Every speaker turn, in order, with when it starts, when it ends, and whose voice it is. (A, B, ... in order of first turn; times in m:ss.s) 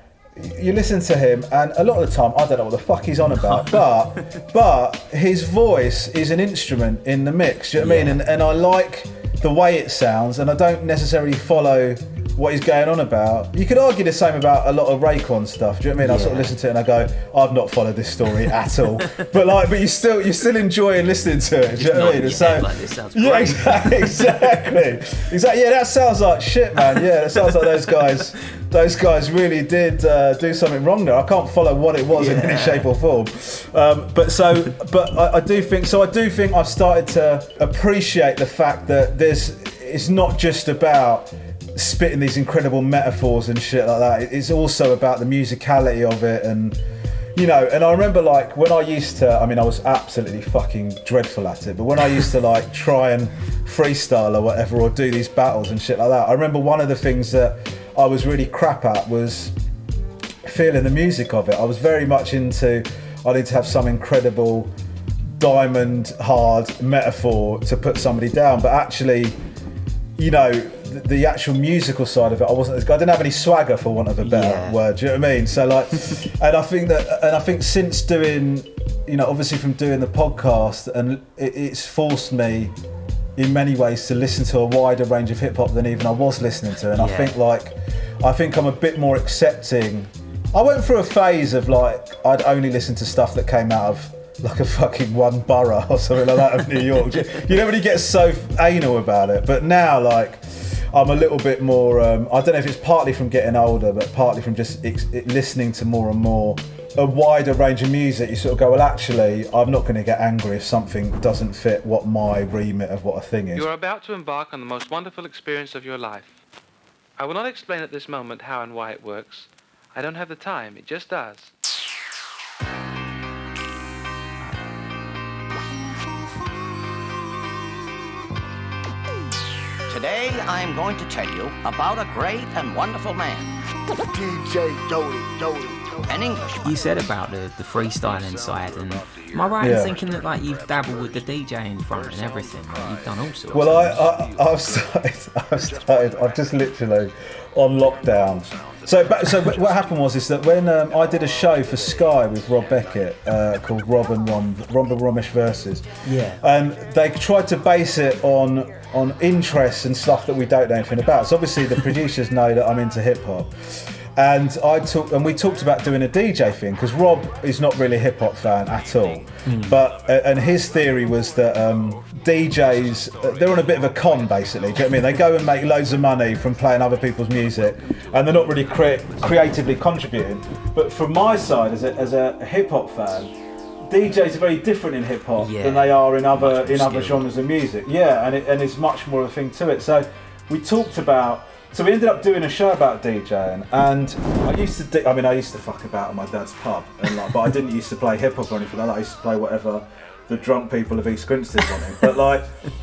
0:00.4-0:46.8 A
0:03.4-0:03.8 B
0:07.8-0:08.2 B
0:16.0-0:16.6 B
0:21.8-0:24.6 B
0:32.1-0:32.9 B
0:47.4-0:59.5 A
1:00.4-1:04.7 A
1:05.4-1:09.4 A
1:10.2-1:22.7 A
1:14.2-1:14.8 B
1:23.4-1:53.7 A
1:27.0-1:27.4 B
1:53.6-1:56.4 C
1:57.2-2:01.5 C
2:09.9-2:13.6 D
2:16.1-2:16.7 D
2:16.6-2:24.0 B
2:19.6-2:20.0 A
2:23.5-3:03.3 A
2:36.0-2:36.4 B
2:49.4-2:49.8 B
3:03.9-3:22.5 A
3:05.4-3:07.2 B